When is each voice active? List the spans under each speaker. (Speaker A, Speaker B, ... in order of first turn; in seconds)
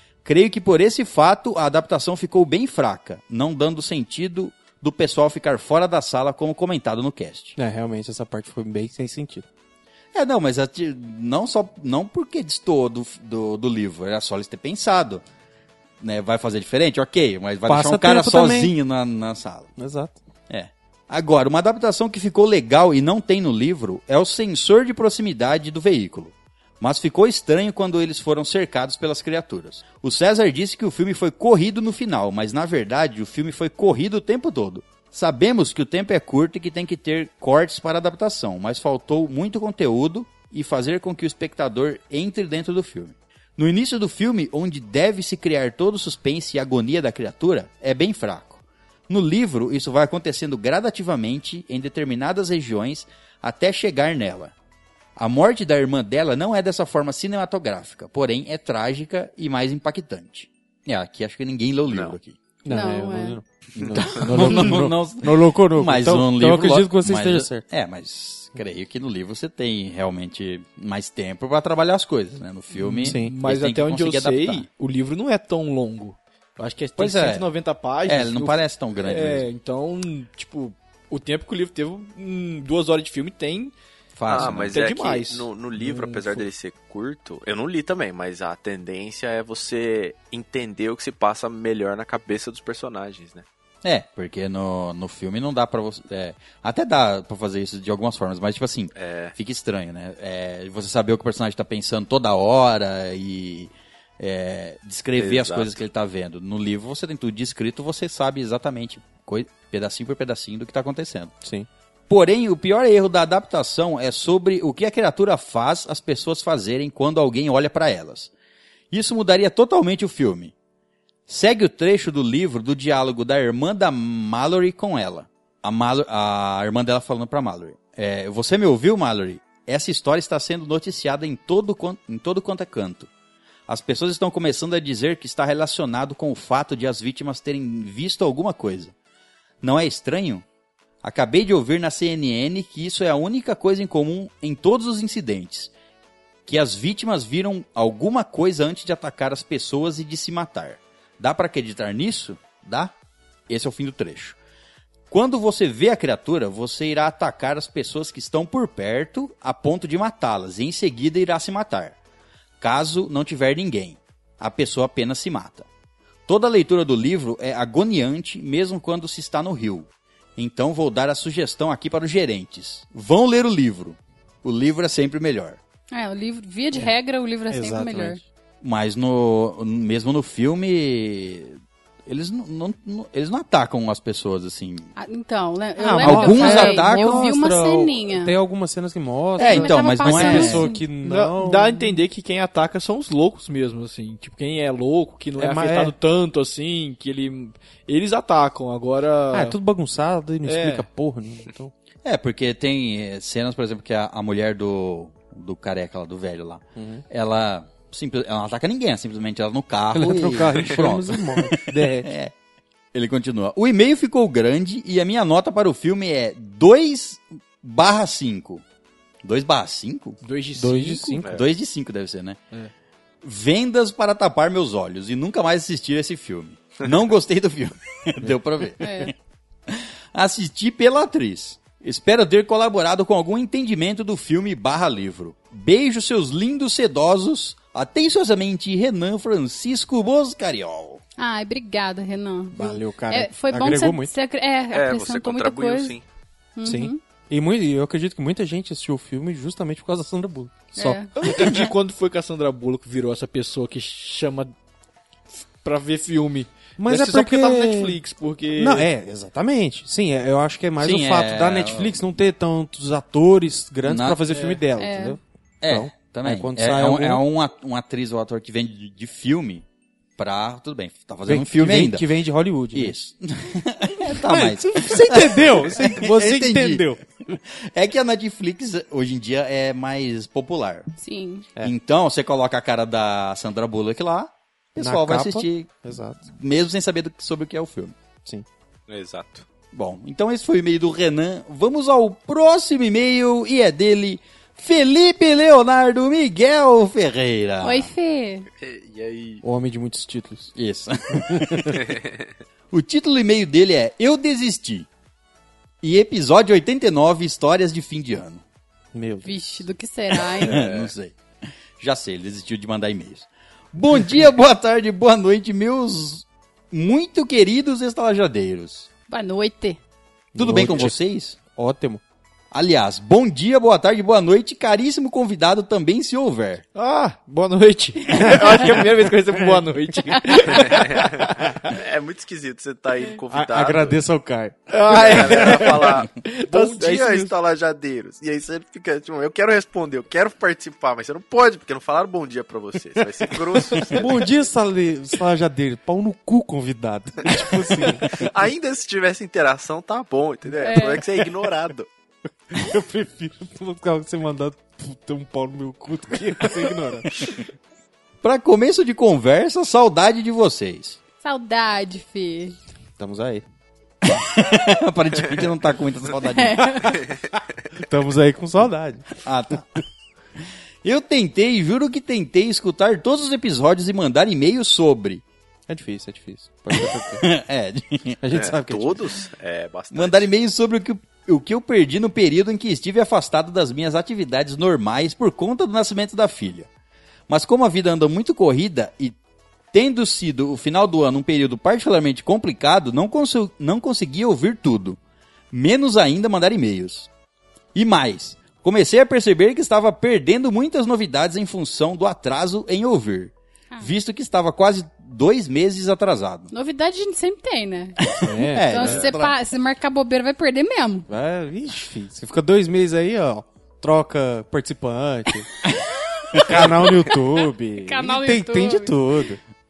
Speaker A: 0.2-7.5, 10.1-15.2, 16.0-19.7, 20.5-54.5, 55.1-62.4, 63.8-74.7, 77.0-77.5, 78.0-79.5, 84.2-84.8, 93.8-111.3, 112.1-118.3, 118.9-120.5, 121.3-133.1, 133.7-138.9, 139.6-140.4, 141.0-145.7, 146.4-152.9, 153.5-154.4, 155.1-161.9, 162.6-165.7, 166.3-175.6, 178.6-184.9, 186.0-187.3, 189.4-190.7, 202.0-212.3, 212.9-218.6, 219.2-220.2, 220.8-222.4, 223.2-229.1, 229.7-241.0, 260.8-262.0, 263.8-264.2, 265.6-269.6, 270.2-272.0, 272.7-280.9, 281.6-288.0, 289.7-297.9, 300.6-301.9, 302.7-304.9, 305.8-308.4, 310.3-311.1, 311.8-318.9, 320.4-321.4, 322.5-326.6, 358.2-361.0, 364.0-367.0, 369.2-369.8, 370.8-375.2, 376.7-378.2, 379.9-386.7, 387.3-389.1, 389.7-395.0, 395.5-397.1, 397.7-406.5, 408.0-409.4, 416.4-416.7
Speaker B: 7.5-9.4, 17.7-18.7, 19.8-20.2, 62.6-67.7, 72.8-73.3, 177.5-178.2, 185.8-192.0, 195.4-195.9, 199.3-201.7, 206.8-207.0, 209.9-212.1, 220.6-221.2, 242.5-244.1, 246.6-251.7, 256.8-258.0, 258.6-267.2, 271.3-272.9, 274.1-277.0, 284.8-286.2, 299.4-300.5, 301.1-301.8, 308.9-309.4, 320.3-322.0, 328.1-328.7, 329.3-329.6, 333.3-336.0, 343.8-348.3, 352.5-357.4, 363.0-363.4, 367.8-369.1, 375.7-377.3, 378.2-379.0, 408.2-409.0, 411.1-415.5, 416.4-419.4
Speaker C: 61.9-62.1, 84.3-93.5, 99.0-99.3, 105.2-105.7, 244.7-246.0, 288.9-289.4, 298.6-299.4, 310.5-310.9, 330.6-331.1, 331.7-334.0, 334.9-344.2, 347.2-351.9, 378.3-380.3
Speaker D: 62.7-63.4, 175.9-178.2, 184.9-188.3, 189.3-190.8, 228.8-229.1, 241.2-245.9, 246.6-247.0, 250.7-251.1, 264.8-265.2, 281.0-281.5, 297.6-298.5, 309.2-310.6, 319.1-319.8, 350.6-351.0, 361.2-362.6, 366.3-367.0, 406.5-408.0, 408.5-411.1, 416.1-419.0
Speaker E: 73.0-83.7, 84.3-86.5, 191.0-199.6, 200.4-200.9, 220.2-221.1, 251.2-254.5, 255.4-258.9, 264.3-264.6, 326.7-331.6, 334.7-337.3